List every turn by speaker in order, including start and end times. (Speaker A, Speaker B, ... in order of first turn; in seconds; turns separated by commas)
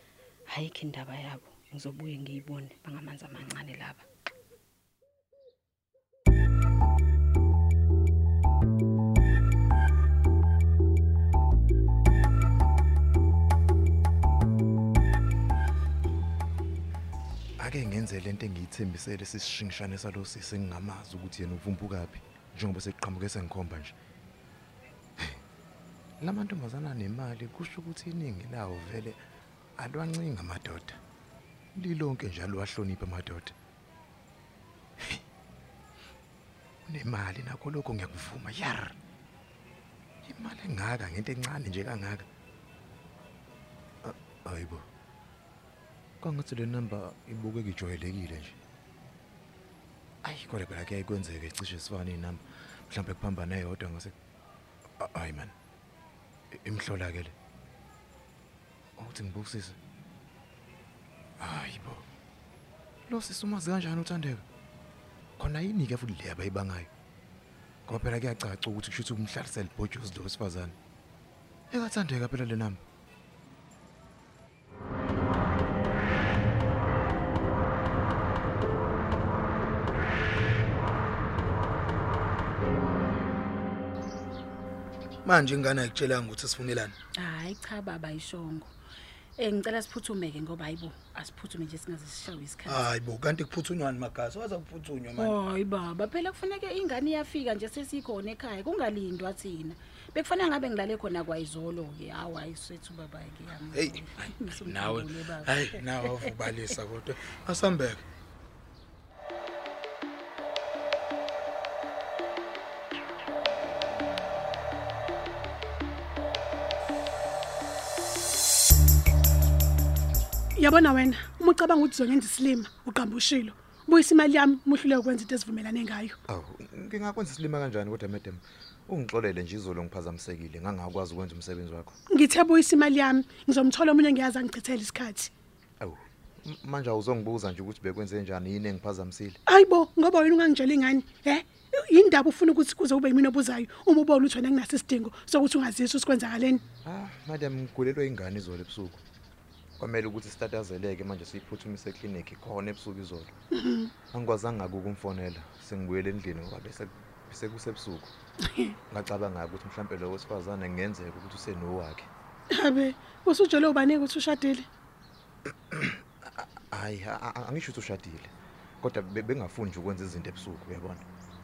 Speaker A: 0.5-4.0, Speaker B: 17.6-23.9, Speaker B: 26.2-29.2, Speaker B: 29.8-31.0, Speaker B: 31.7-33.5, Speaker B: 36.9-39.0, Speaker B: 40.2-42.2, Speaker B: 44.0-44.9, Speaker B: 46.2-48.6, Speaker B: 50.2-54.1, Speaker B: 55.0-55.5, Speaker B: 56.5-57.3, Speaker B: 59.0-59.8, Speaker B: 61.4-62.0, Speaker B: 63.1-64.4, Speaker B: 65.4-66.9, Speaker B: 67.8-70.8, Speaker B: 71.7-72.8, Speaker C: 85.2-86.9, Speaker D: 87.2-88.7, Speaker D: 89.4-92.8, Speaker C: 92.7-95.3, Speaker D: 95.2-106.3, Speaker C: 103.7-108.0, Speaker E: 120.6-126.2, Speaker B: 126.3-131.9, Speaker E: 132.1-135.3, Speaker B: 135.8-139.4, Speaker E: 139.5-146.6, Speaker B: 146.8-149.0, Speaker B: 149.8-153.4, Speaker E: 153.5-153.9, Speaker B: 154.1-158.1, Speaker B: 158.9-162.1, Speaker E: 162.5-164.7, Speaker B: 165.7-171.0